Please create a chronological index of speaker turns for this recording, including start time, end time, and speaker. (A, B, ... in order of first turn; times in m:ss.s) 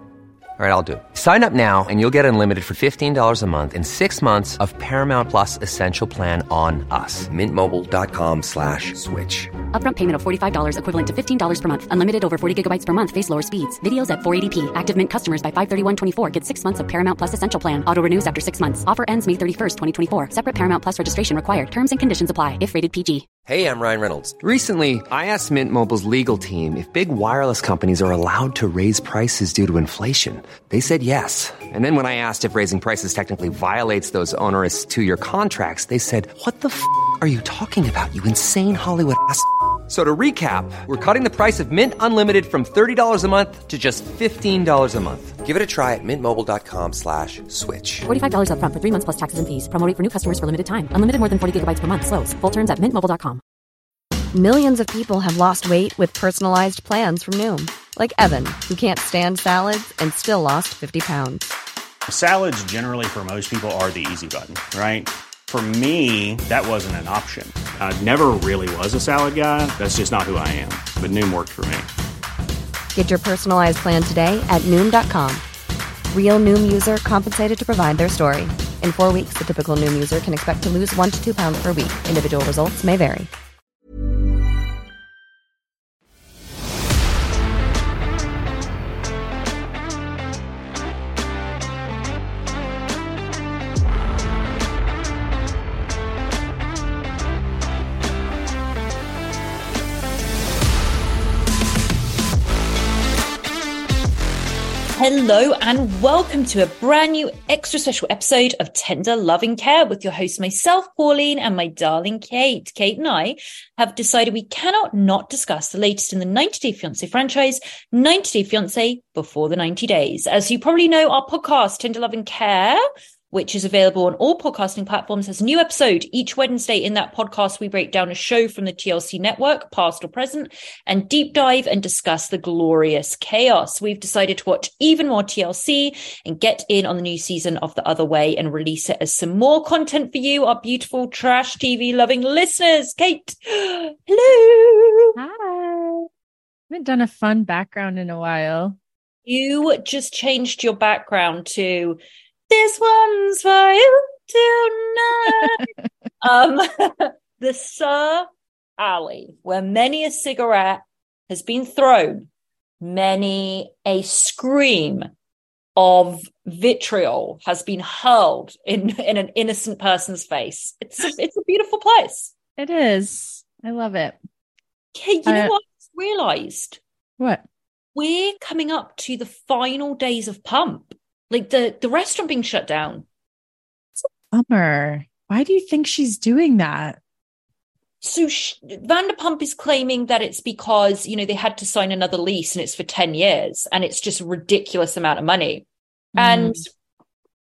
0:00.6-0:09.5 A
0:09.7-0:23.2 B
0:23.4-0:48.0 A
0:48.0-0:53.4 B
0:54.3-1:01.5 C
1:02.1-1:11.9 D
1:12.9-1:15.4 C
1:16.1-1:23.3 C
1:44.9-2:25.2 E
2:25.2-2:26.1 F
2:26.7-2:28.8 F
2:29.2-2:35.7 E
2:36.2-2:38.3 E
2:38.8-2:42.3 E
2:42.8-2:45.1 E
2:45.8-2:52.3 E
2:52.6-2:54.2 F
2:54.9-2:56.8 E
2:55.2-2:55.5 F
2:57.2-2:57.4 F
2:58.0-3:03.0 E
3:04.3-3:07.0 F
3:08.0-3:15.6 E
3:16.1-3:16.6 F
3:16.2-3:16.7 E